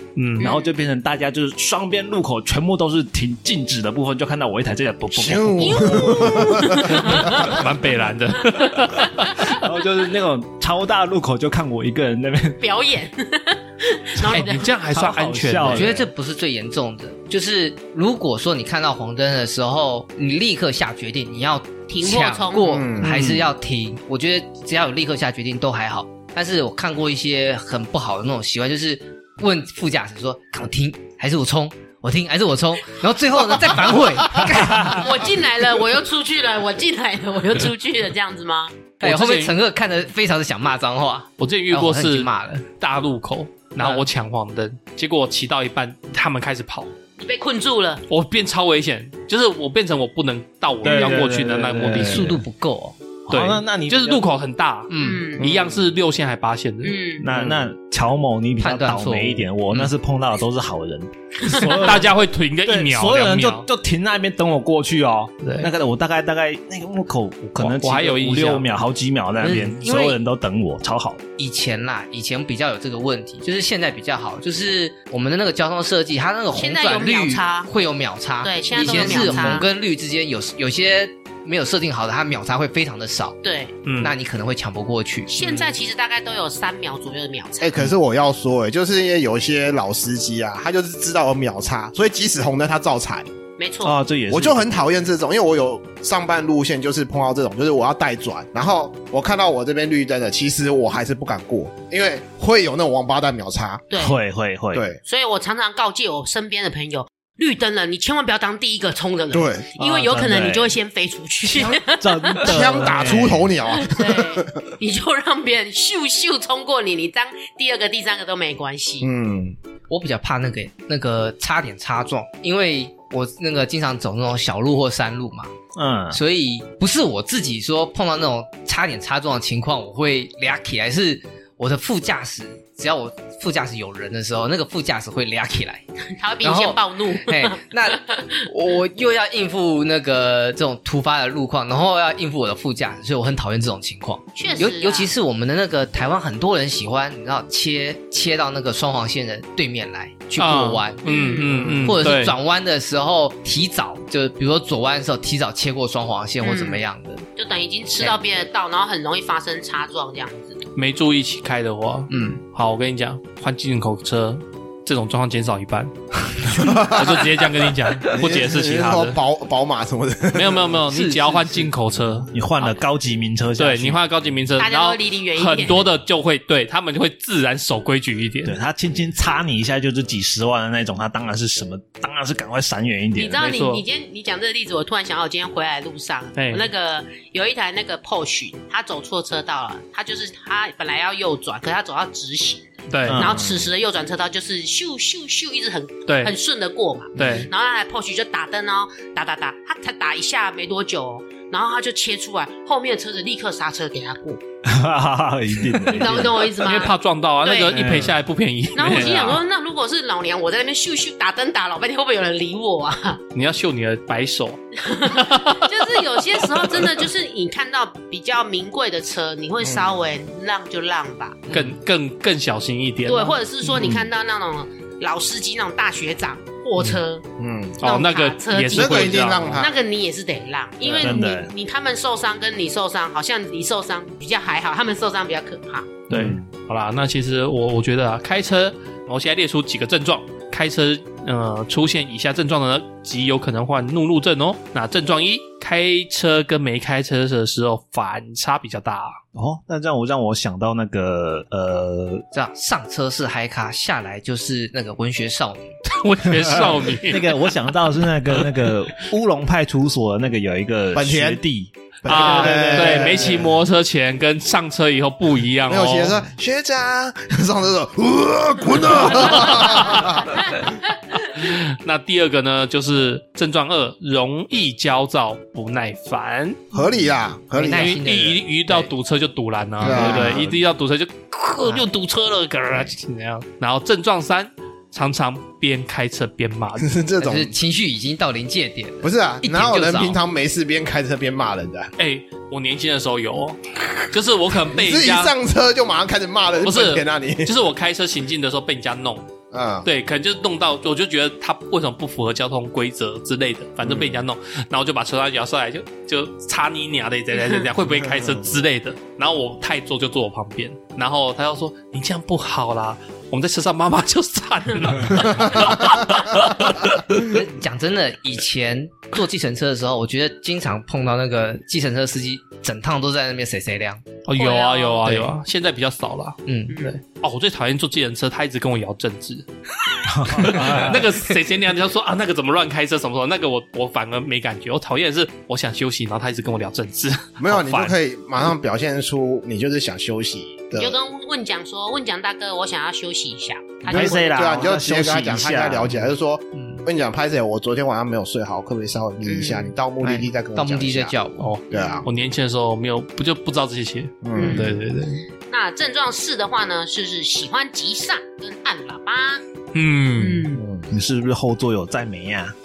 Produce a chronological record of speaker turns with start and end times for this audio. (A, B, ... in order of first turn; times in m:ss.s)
0:00.2-0:00.5 A
0:00.4-0:00.7 B
0:00.4-0:06.5 C
0:05.1-0:07.0 D
0:05.6-0:07.6 B
0:07.0-0:09.4 A
0:09.0-0:12.6 C
0:12.6-0:14.7 B
0:14.2-0:16.1 C
0:14.3-0:15.9 A
0:15.6-0:35.2 E
0:21.9-0:22.9 B
0:22.7-0:23.3 D
0:23.0-0:23.5 C
0:34.6-0:35.0 C
0:34.8-0:38.8 B
0:39.0-0:39.6 A
0:39.0-0:42.6 E
0:41.4-0:46.9 A
0:43.8-0:44.1 E
0:47.2-0:48.0 B
0:48.1-0:52.4 A
0:50.8-0:52.4 C
0:52.0-0:53.1 E
0:53.3-0:54.2 C
0:53.3-0:57.6 A
0:54.9-0:55.2 E
0:55.0-0:55.4 B
0:56.8-0:57.3 B
0:57.2-1:02.1 C
0:58.6-0:59.9 E
1:01.4-1:01.7 B
1:01.6-1:03.7 A
1:02.6-1:11.2 C
1:05.4-1:05.7 A
1:07.6-1:08.7 A
1:09.4-1:10.2 E
1:11.4-1:23.4 E
1:16.5-1:17.7 B
1:18.4-1:19.7 B
1:18.8-1:19.5 A
1:23.4-1:23.7 B
1:23.8-1:24.2 A
1:24.0-1:25.7 E
1:25.3-1:27.8 B
1:27.6-1:33.3 D
1:33.6-1:34.0 B
1:33.8-1:34.8 C
1:34.3-1:43.9 D
1:43.9-1:44.2 B
1:44.0-1:44.9 C
1:44.7-1:45.0 D
1:45.0-1:52.6 B
1:49.3-1:49.7 D
1:49.8-1:50.7 C
1:51.5-1:53.5 C
1:52.4-1:54.5 D
1:53.7-1:59.1 B
1:59.0-1:59.6 D
1:59.9-2:05.5 E
2:05.8-2:06.2 C
2:06.1-2:15.8 E
2:16.0-2:18.4 B
2:16.4-2:37.3 E
2:24.4-2:25.1 B
2:30.4-2:32.4 A
2:31.0-2:31.8 B
2:36.4-2:36.8 B
2:37.4-2:40.6 B
2:40.8-2:49.2 A
2:42.1-2:42.4 B
2:42.1-2:42.4 E
2:46.5-2:47.4 D
2:48.1-2:50.8 D
2:50.3-2:52.3 A
2:50.9-2:51.7 E
2:52.3-2:54.0 C
2:53.6-2:58.6 A
2:54.6-2:55.9 B
2:58.5-3:03.4 C
3:03.2-3:24.4 B
3:03.4-3:03.8 A
3:06.4-3:06.7 A
3:12.9-3:13.3 A
3:13.1-3:13.4 C
3:13.3-3:13.7 D
3:16.1-3:16.3 A
3:17.2-3:17.5 A
3:17.2-3:17.5 C
3:24.6-3:26.6 C
3:25.8-3:27.9 B
3:26.6-3:29.4 A
3:27.7-3:28.2 C
3:28.8-3:33.2 B
3:29.0-3:29.3 C
3:33.4-3:37.0 A
3:34.8-3:41.4 B
3:39.6-3:40.0 D
3:41.5-3:41.8 E
3:41.5-3:43.4 A
3:43.1-3:47.2 B
3:47.4-3:47.8 D
3:47.8-3:49.6 A
3:47.8-3:56.0 B
3:48.7-3:49.7 D
3:51.0-3:51.5 C
3:56.1-3:56.4 C
3:56.1-4:09.2 A
4:09.4-4:12.3 C
4:12.3-4:15.7 E
4:15.9-4:17.4 A
4:16.9-4:23.5 C
4:20.9-4:21.4 D
4:22.0-4:23.6 D
4:22.0-4:26.2 A
4:25.7-4:30.4 D
4:29.2-4:36.6 A
4:36.7-4:38.3 D
4:37.5-4:38.9 E
4:37.7-4:46.9 A
4:39.8-4:40.5 D
4:39.8-4:40.6 C
4:46.8-4:47.5 D
4:47.2-4:50.2 E
4:49.0-4:51.9 D
4:52.0-4:55.3 A
4:54.7-4:57.5 D
4:56.6-4:59.3 A
4:59.5-4:59.9 D
4:59.8-5:17.2 A
5:03.8-5:04.2 D
5:07.4-5:07.7 B
5:08.0-5:08.4 D
5:15.3-5:15.6 D
5:17.1-5:24.1 E
5:24.3-5:29.5 A
5:24.4-5:25.1 B
5:25.0-5:25.3 E
5:26.5-5:26.8 E
5:26.7-5:27.0 B
5:30.1-5:31.1 C
5:30.3-5:38.0 A
5:37.4-5:41.0 D
5:40.8-5:44.6 B
5:43.9-5:46.0 C
5:43.9-5:51.2 D
5:46.6-5:46.8 E
5:49.2-5:49.7 B
5:50.0-5:51.5 E
5:51.4-5:55.2 A
5:51.7-5:52.0 B
5:51.7-5:52.1 D
5:54.2-5:54.8 D
5:54.4-5:54.8 B
5:55.5-5:59.4 B
5:59.7-6:00.5 A
6:00.2-6:00.6 B
6:00.6-6:00.9 D
6:00.9-6:02.6 C